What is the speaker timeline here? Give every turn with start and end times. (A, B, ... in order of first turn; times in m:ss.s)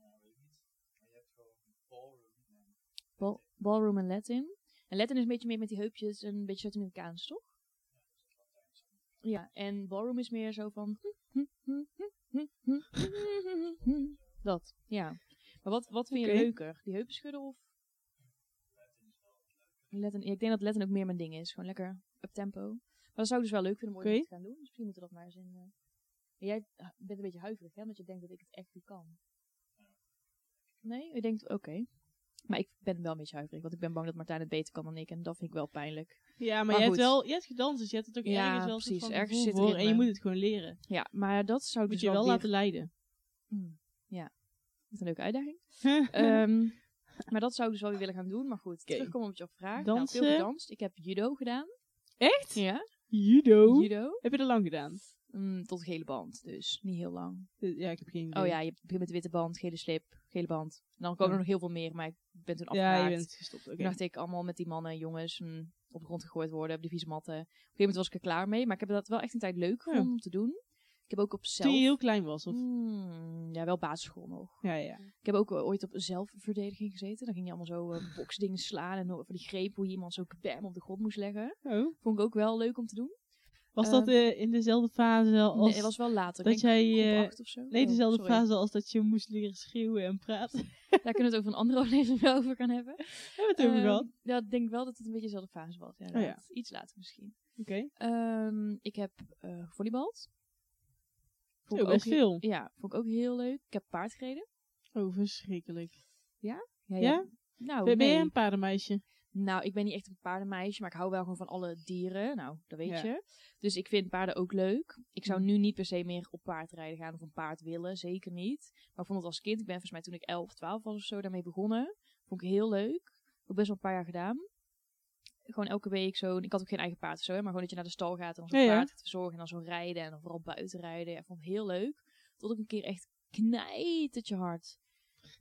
0:03.2-0:07.6 A
0:09.2-0:17.7 A
0:16.1-0:16.5 B
0:19.9-0:29.2 A
0:24.0-0:24.3 B
0:30.8-0:37.5 A
0:36.4-0:40.9 B
0:38.2-0:42.7 A
0:41.9-0:42.9 B
0:43.5-1:24.2 A
0:45.8-0:46.4 B
0:48.9-0:50.5 B
0:52.2-0:55.0 B
0:57.6-0:58.6 B
1:01.2-1:01.4 B
1:02.7-1:04.0 B
1:11.6-1:12.6 B
1:14.6-1:15.1 B
1:21.6-1:22.0 B
1:23.7-1:31.0 B
1:25.5-1:28.4 A
1:31.0-1:40.3 A
1:33.4-1:34.1 B
1:36.1-1:36.5 B
1:37.6-1:37.9 B
1:41.6-1:42.4 B
1:41.7-1:44.5 A
1:44.9-1:49.0 B
1:46.4-1:48.7 A
1:49.3-2:04.7 A
1:52.8-1:53.1 B
1:55.2-1:55.5 B
2:05.4-2:14.9 A
2:08.5-2:08.9 B